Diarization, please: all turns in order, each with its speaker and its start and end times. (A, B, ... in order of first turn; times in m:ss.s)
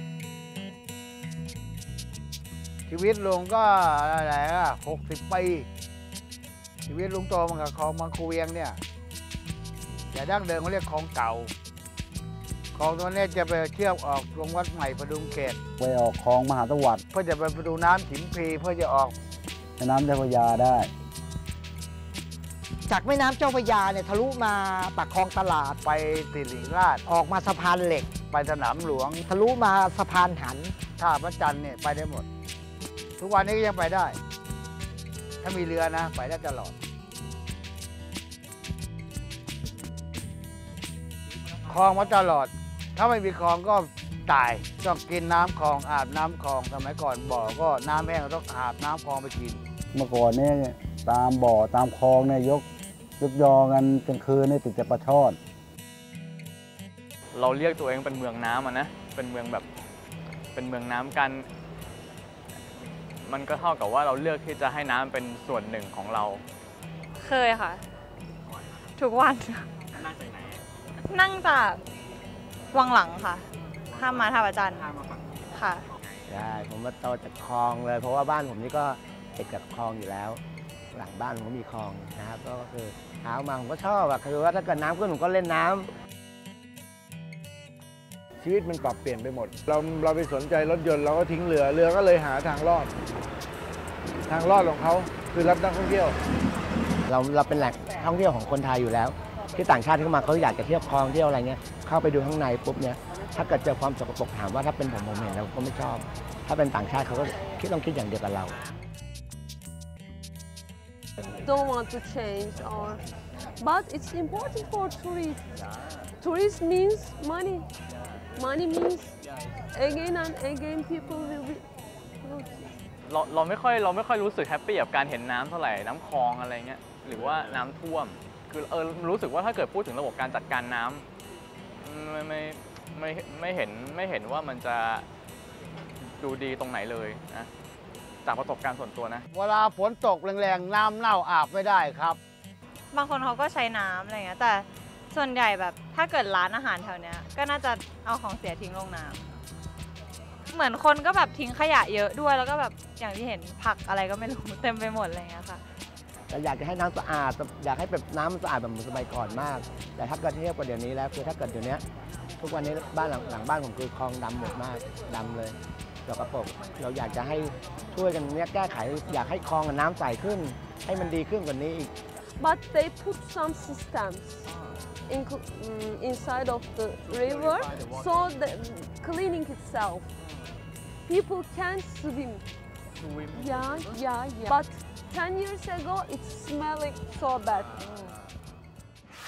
0:02.9-0:05.6 A
0:06.9-0:08.8 A
0:10.1-0:11.5 A
0:12.7-0:15.6 A
0:15.8-0:17.0 B
0:17.1-0:19.1 A
0:19.8-0:20.9 B
0:22.9-0:25.6 C
0:25.8-0:27.0 A
0:27.1-0:28.1 C
0:28.2-0:29.2 A
0:29.3-0:30.7 C
0:31.0-0:32.2 A
0:33.2-0:34.2 A
0:35.4-0:36.7 A
0:41.6-0:49.6 A
0:49.9-0:52.6 B
0:53.2-0:55.4 B
0:57.3-0:59.6 D
1:00.5-1:01.5 D
1:03.2-1:06.4 D
1:07.2-1:07.8 E
1:09.0-1:09.7 E
1:11.0-1:11.8 E
1:12.7-1:14.9 E
1:15.5-1:15.9 E
1:16.3-1:20.4 F
1:20.9-1:25.9 F
1:28.4-1:32.9 G
1:34.3-1:36.2 G
1:37.1-1:48.6 F
1:51.4-1:53.0 H
1:53.6-1:55.4 H
1:56.2-1:57.7 H
1:58.4-1:59.2 H
1:59.7-2:01.6 H
2:02.2-2:02.6 H
2:03.1-2:11.0 D
2:11.8-2:15.0 D
2:16.0-2:17.5 D
2:18.2-2:19.2 D
2:19.3-2:22.2 A
2:22.9-2:29.2 E
2:30.5-2:35.6 E
2:36.3-2:41.8 F
2:42.4-2:51.9 F
2:52.4-2:54.5 H
2:55.1-3:00.1 H
3:01.0-3:02.4 H
3:03.3-3:08.2 H